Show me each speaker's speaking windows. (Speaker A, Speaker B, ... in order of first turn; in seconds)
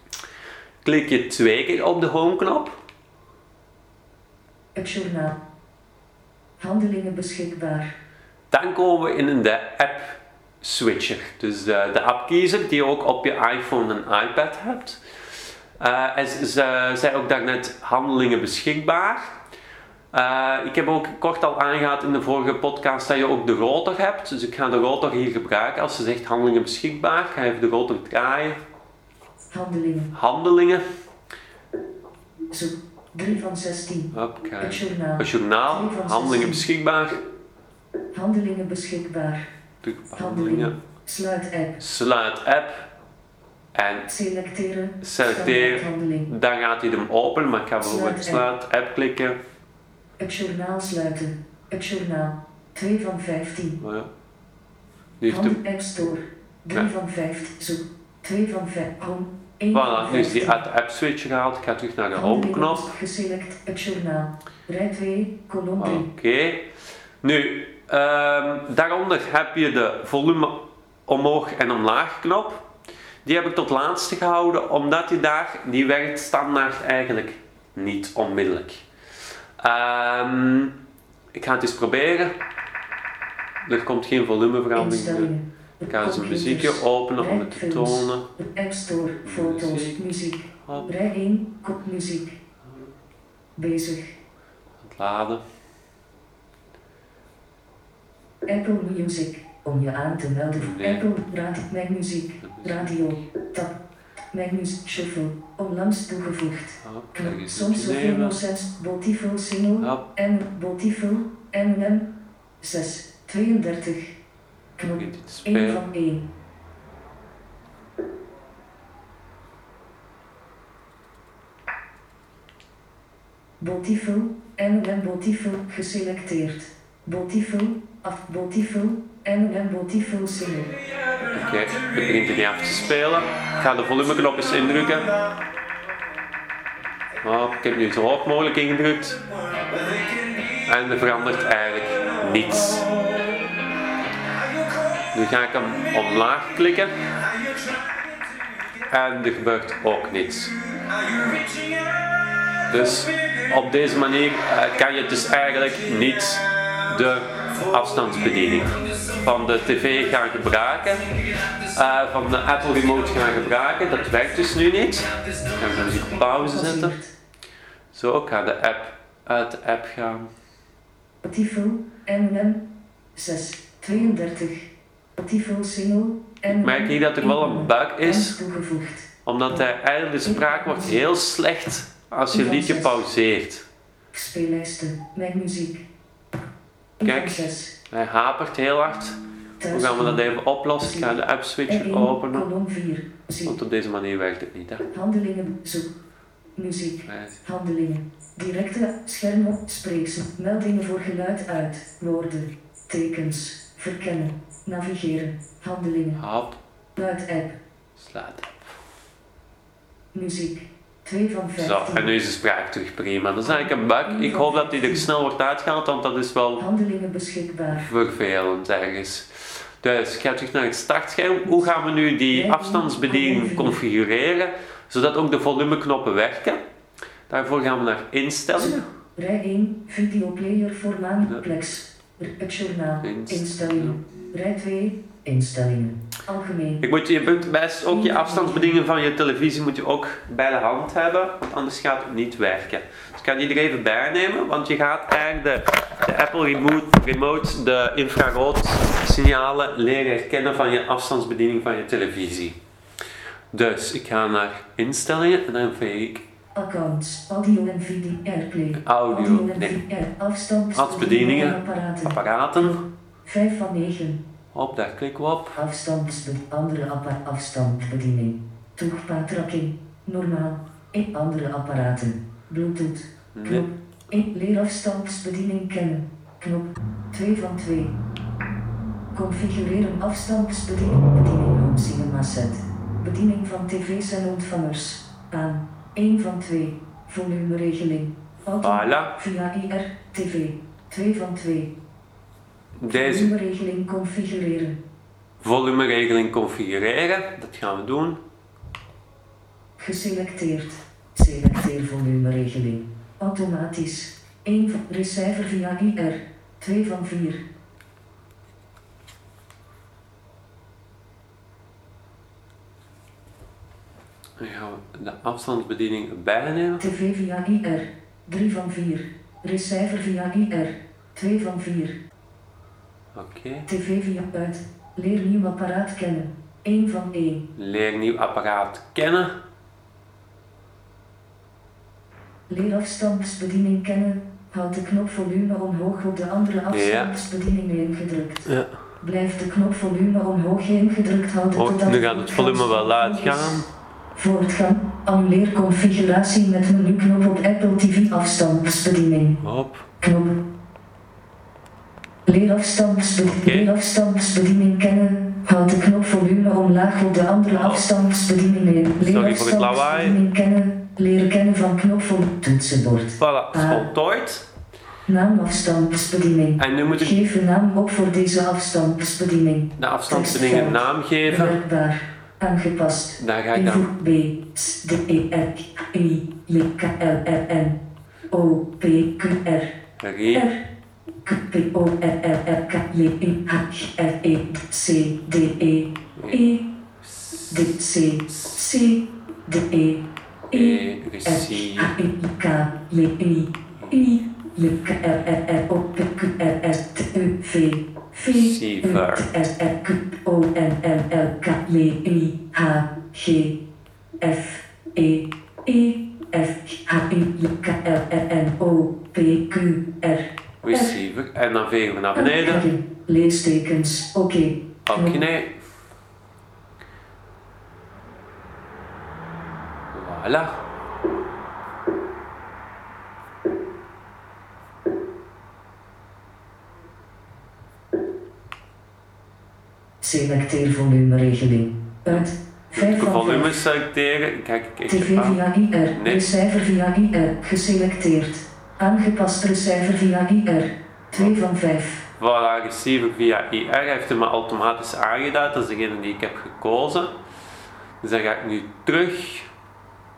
Speaker A: 0.8-2.8, 8.5-15.0, 15.8-19.3, 20.1-28.6, 30.1-30.8, 34.1-37.2, 39.8-40.8, 41.8-42.9, 43.8-44.1, 45.0-49.4, 53.8-54.1, 55.2-55.6, 59.7-62.9, 65.8-66.7, 67.2-72.7, 73.2-78.8, 79.6-80.8, 81.3-82.4, 83.7-85.3, 85.9-88.3, 89.2-90.0, 90.7-90.9, 94.8-95.4, 100.6-101.0, 102.4-103.0, 106.8-108.4, 109.8-110.0, 114.8-115.8, 131.3-135.1, 137.2-139.2, 140.7-142.9, 145.1-146.9, 148.9-150.5, 152.7-161.1, 161.7-166.9, 167.9-170.3, 176.6-178.4, 179.3-183.7, 187.0-189.2, 189.7-192.5, 193.5-194.9, 197.1-197.4, 206.2-206.6, 208.0-208.6, 211.6-216.6, 217.7-219.3, 219.8-226.6, 227.3-228.9, 233.0-234.0, 236.8-252.6, 253.5-256.2, 258.8-259.8, 260.8-262.8, 264.5-265.6, 273.4-273.7, 288.6-289.1, 292.8-293.3, 295.4-298.2, 314.4-316.8, 323.1-323.7, 327.6-329.4, 336.7-337.1, 338.5-338.7, 341.6-343.7, 349.4-349.9, 353.2-353.7, 357.5-357.9, 359.0-360.2, 363.2-364.4, 366.6-367.2, 369.8-371.6, 373.2-373.9, 380.0-380.5, 387.0-387.8, 390.5-391.9, 398.3-399.3, 410.6-412.6, 414.9-415.6, 419.9-420.5, 432.1-435.4, 435.9-436.3, 442.2-447.1, 448.0-449.5
Speaker B: 4.8-5.4, 6.6-7.9, 29.5-30.1, 32.5-36.6, 38.1-39.5, 40.2-41.8, 44.1-46.3, 47.8-48.5, 50.2-53.8, 55.3-60.6, 62.1-66.1, 84.8-92.4, 93.6-94.2, 98.5-103.8, 104.3-114.2, 114.8-116.3, 123.6-130.7, 166.2-167.1, 171.2-179.6, 180.2-181.0, 182.3-183.0, 184.1-185.9, 187.0-187.7, 189.6-193.6, 194.9-195.9, 196.6-206.2, 207.0-207.6, 210.1-212.1, 213.4-215.1, 216.6-217.9, 222.3-223.8, 228.6-236.8, 237.9-238.8, 256.6-262.7, 263.2-264.2, 265.6-278.0, 279.1-291.7, 292.9-294.8, 299.8-307.4, 316.8-322.0, 323.7-327.5, 332.5-343.6, 344.1-349.4, 350.0-350.4, 352.3-363.9, 365.1-379.8, 380.3-380.6, 381.2-386.6, 387.5-403.6, 404.2-410.9, 412.1-415.2, 430.0-433.6, 434.9-442.0